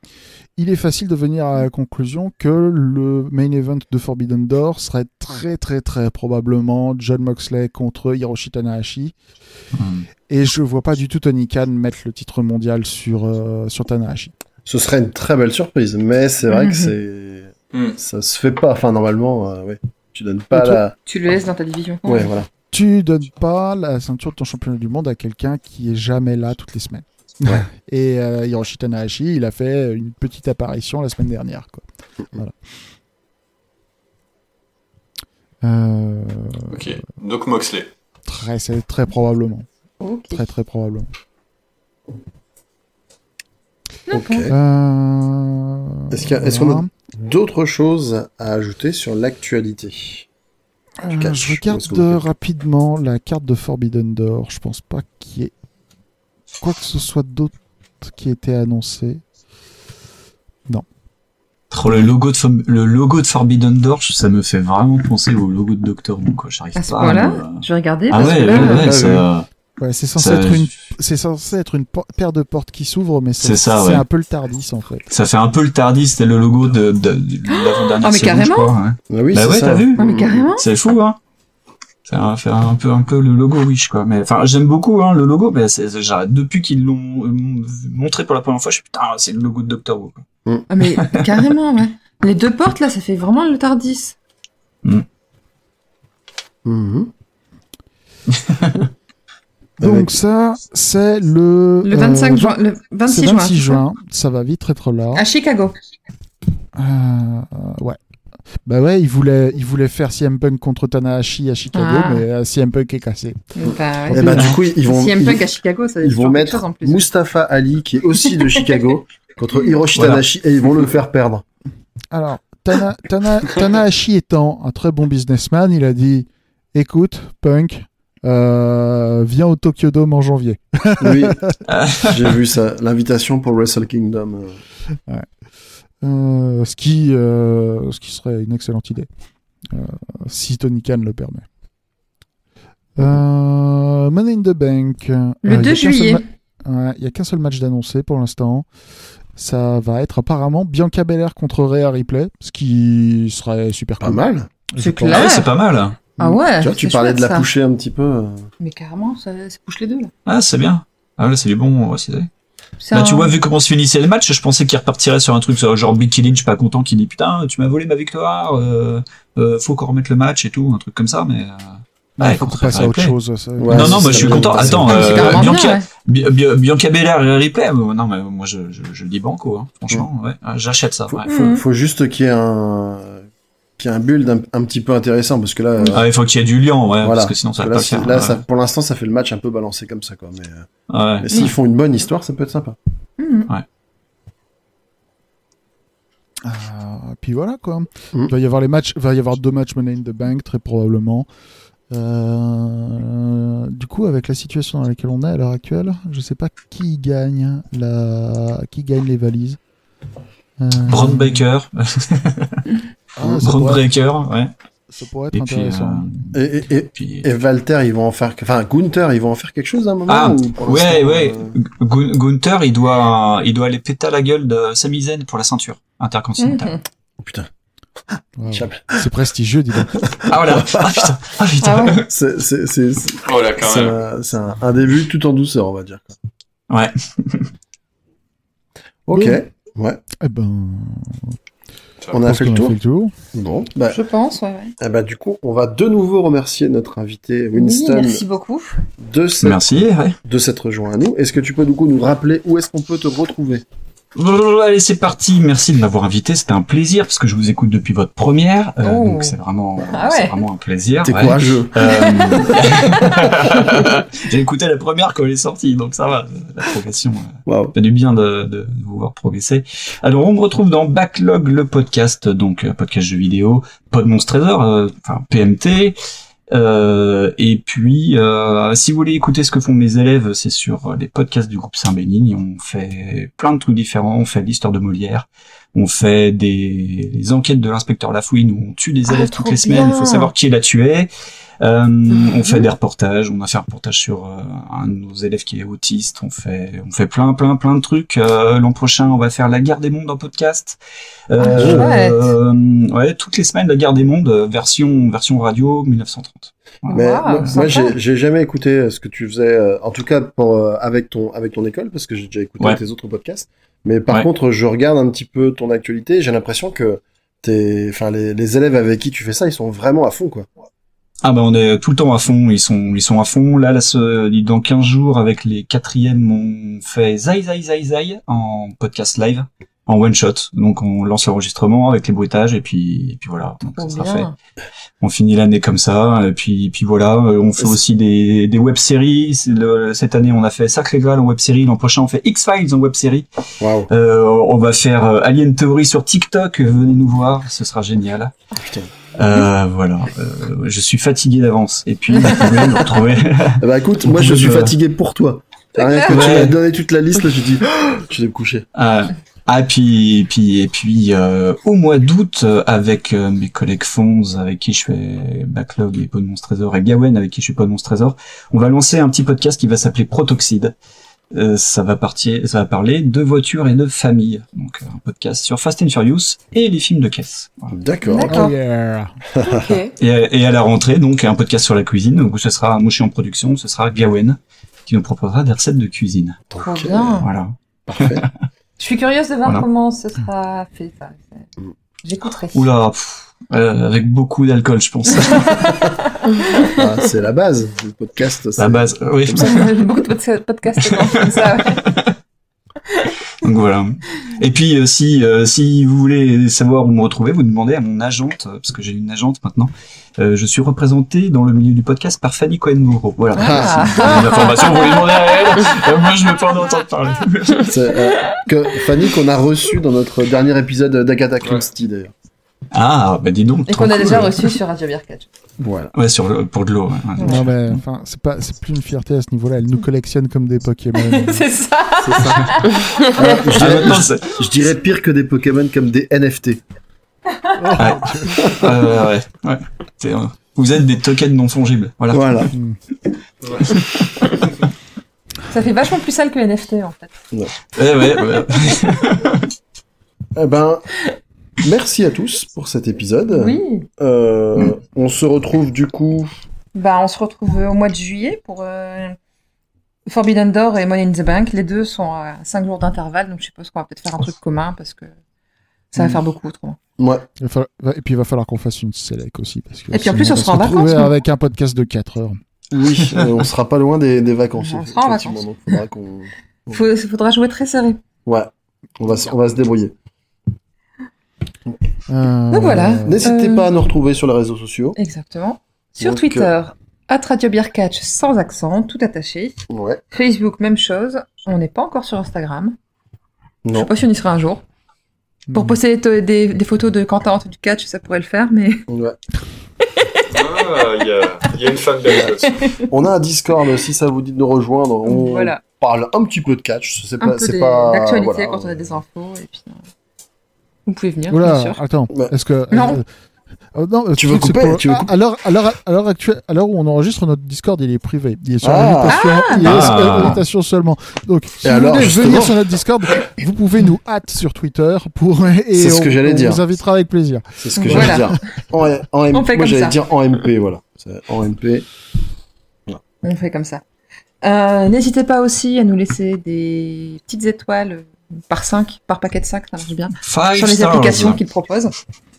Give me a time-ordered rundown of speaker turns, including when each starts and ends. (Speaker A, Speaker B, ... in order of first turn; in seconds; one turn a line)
Speaker A: 0.6-9.1
Speaker B: 9.7-10.1
Speaker A: 10.3-14.3
Speaker C: 14.7-20.9
Speaker D: 16.5-16.9
Speaker A: 20.5-20.8
Speaker D: 21.0-22.3
Speaker C: 22.0-22.5
Speaker A: 22.7-32.6
Speaker A: 35.6-36.9
Speaker E: 36.7-37.9
Speaker A: 38.2-39.7
Speaker D: 40.0-40.4
Speaker A: 40.3-41.1
Speaker D: 44.1-44.5
Speaker C: 44.1-44.5
Speaker A: 44.5-46.9
Speaker C: 46.1-50.2
Speaker A: 51.0-55.5
Speaker C: 51.2-52.2
Speaker A: 56.6-59.2
Speaker B: 61.7-69.5
Speaker D: 66.8-68.9
Speaker C: 68.1-69.2
Speaker A: 69.8-75.1
Speaker B: 70.2-70.7
Speaker B: 73.4-74.0
Speaker B: 75.1-80.0
Speaker D: 77.5-78.7
Speaker C: 79.1-80.5
Speaker D: 80.0-80.6
Speaker B: 80.5-81.2
Speaker B: 82.0-90.2
Speaker D: 90.7-94.2
Speaker C: 96.6-97.1
Speaker B: 98.3-98.8
Speaker A: 99.8-105.2
Speaker C: 99.8-100.1
Speaker D: 101.8-103.8
Speaker D: 105.1-105.7
Speaker A: 106.7-108.0
Speaker A: 108.6-113.4
Speaker D: 111.7-112.2
Speaker D: 113.5-117.1
Speaker C: 113.7-115.5
Speaker A: 114.1-114.6
Speaker C: 116.0-121.4
Speaker B: 119.9-120.2
Speaker A: 122.1-131.6
Speaker C: 131.0-131.4
Speaker B: 131.7-132.3
Speaker C: 132.0-134.6
Speaker A: 136.0-139.1
Speaker A: 139.7-141.4
Speaker A: 142.9-148.7
Speaker D: 145.4-146.2
Speaker A: 149.3-155.3
Speaker C: 154.0-154.5
Speaker D: 154.8-155.5
Speaker B: 155.1-156.0
Speaker D: 156.2-157.5
Speaker C: 156.2-158.5
Speaker D: 158.6-160.1
Speaker B: 160.2-162.3
Speaker D: 162.8-163.3
Speaker B: 162.9-173.1
Speaker A: 172.2-174.9
Speaker C: 173.6-175.5
Speaker B: 173.7-181.3
Speaker D: 174.9-175.8
Speaker C: 181.1-183.2
Speaker D: 181.2-181.6
Speaker C: 183.8-186.1
Speaker D: 185.8-186.0
Speaker B: 185.9-188.4
Speaker C: 187.0-190.7
Speaker B: 190.9-191.5
Speaker C: 191.2-192.8
Speaker D: 193.2-193.5
Speaker A: 196.4-201.3
Speaker A: 201.9-209.6
Speaker A: 210.6-211.5
Speaker B: 210.8-212.6
Speaker A: 213.2-213.8
Speaker B: 213.3-214.5
Speaker A: 214.9-216.1
Speaker B: 215.3-216.3
Speaker C: 216.3-221.6
Speaker B: 216.9-217.3
Speaker B: 220.1-226.7
Speaker D: 226.4-226.8
Speaker C: 227.2-227.5
Speaker A: 228.4-230.1
Speaker C: 228.5-228.9
Speaker C: 230.0-231.0
Speaker B: 230.3-232.0
Speaker D: 231.6-232.0
Speaker C: 232.0-236.1
Speaker E: 233.2-234.0
Speaker B: 236.7-237.5
Speaker C: 239.1-240.0
Speaker A: 239.1-239.4
Speaker A: 240.2-241.3
Speaker C: 242.1-242.7
Speaker A: 242.2-243.1
Speaker C: 243.3-244.0
Speaker D: 243.9-244.7
Speaker C: 244.8-248.2
Speaker D: 247.5-248.8
Speaker C: 249.0-249.7
Speaker B: 249.4-250.2
Speaker C: 250.2-253.6
Speaker B: 254.1-276.0
Speaker D: 258.8-260.4
Speaker C: 261.0-262.1
Speaker D: 261.8-263.9
Speaker C: 267.4-267.7
Speaker B: 276.5-291.1
Speaker D: 289.1-290.3
Speaker B: 291.6-300.8
Speaker D: 292.1-292.7
Speaker B: 301.3-306.5
Speaker D: 301.4-302.3
Speaker C: 301.5-301.9
Speaker D: 306.9-307.9
Speaker C: 306.9-320.5
Speaker B: 321.2-334.3
Speaker D: 333.8-334.3
Speaker B: 335.0-343.2
Speaker C: 343.6-343.9
Speaker B: 343.9-348.3
Speaker C: 348.6-348.9
Speaker B: 349.2-354.7
Speaker C: 353.6-358.6
Speaker D: 355.8-356.1
Speaker B: 356.0-356.6
Speaker B: 358.7-370.7
Speaker B: 371.3-377.8
Speaker C: 377.7-378.4
Speaker D: 378.0-378.6
Speaker A: 378.2-379.1
Speaker C: 379.4-379.7
Speaker D: 379.4-379.9
Speaker B: 380.0-386.4
Speaker C: 386.5-387.2
Speaker D: 386.6-387.3
Speaker B: 387.2-388.3
Speaker C: 387.9-388.2
Speaker D: 388.8-391.5
Speaker D: 392.0-392.7
Speaker B: 392.5-395.9
Speaker D: 395.1-396.8
Speaker C: 396.6-399.5
Speaker B: 398.6-399.8
Speaker D: 399.3-401.9
Speaker B: 400.8-402.0
Speaker D: 402.9-403.1
Speaker B: 403.4-418.0
Speaker C: 413.4-414.5
Speaker D: 413.4-415.6
Speaker C: 417.7-422.1
Speaker B: 422.7-424.6
Speaker D: 423.7-425.3
Speaker C: 425.6-425.9
Speaker B: 425.9-427.8
Speaker D: 427.2-427.4
Speaker A: 427.2-431.4
Speaker D: 431.0-433.4
Speaker C: 432.0-436.6
Speaker B: 433.2-434.5
Speaker A: 437.6-438.7
Speaker B: 437.8-442.5
Speaker C: 438.4-438.7
Speaker C: 442.1-442.5
Speaker E: 443.4-443.8
Speaker B: 443.7-444.3
Speaker D: 445.5-447.1
Speaker B: 447.8-449.4
Speaker C: 450.4-451.0
Speaker C: 451.6-456.3
Speaker D: 453.3-453.9
Speaker D: 456.7-459.2
Speaker D: 460.1-465.1
Speaker D: 465.9-466.8
Speaker C: 467.0-467.2
Speaker A: 467.4-472.4
Speaker D: 469.9-471.1
Speaker C: 472.7-476.8
Speaker D: 474.6-475.4
Speaker D: 476.7-478.0
Speaker C: 478.2-479.9
Speaker A: 482.1-483.3
Speaker D: 482.5-483.7
Speaker C: 483.0-485.0
Speaker D: 484.9-489.6
Speaker C: 486.0-486.5
Speaker C: 489.7-490.0
Speaker D: 490.1-492.8
Speaker C: 493.6-493.9
Speaker D: 493.7-494.6
Speaker A: 495.5-495.8
Speaker D: 495.5-498.9
Speaker C: 498.9-499.2
Speaker D: 500.1-500.7
Speaker E: 500.3-502.8
Speaker D: 502.5-502.9
Speaker C: 502.9-509.0
Speaker D: 505.0-505.6
Speaker D: 507.2-509.8
Speaker D: 510.9-511.8
Speaker A: 511.3-513.0
Speaker D: 512.7-513.0
Speaker A: 513.7-528.4
Speaker C: 514.1-515.1
Speaker C: 518.6-519.2
Speaker D: 519.1-520.4
Speaker B: 519.6-520.4
Speaker C: 521.6-522.5
Speaker C: 525.7-526.6
Speaker C: 527.6-531.9
Speaker D: 527.8-528.4
Speaker D: 529.3-530.0
Speaker D: 533.2-533.8
Speaker D: 534.4-541.9
Speaker B: 540.2-541.4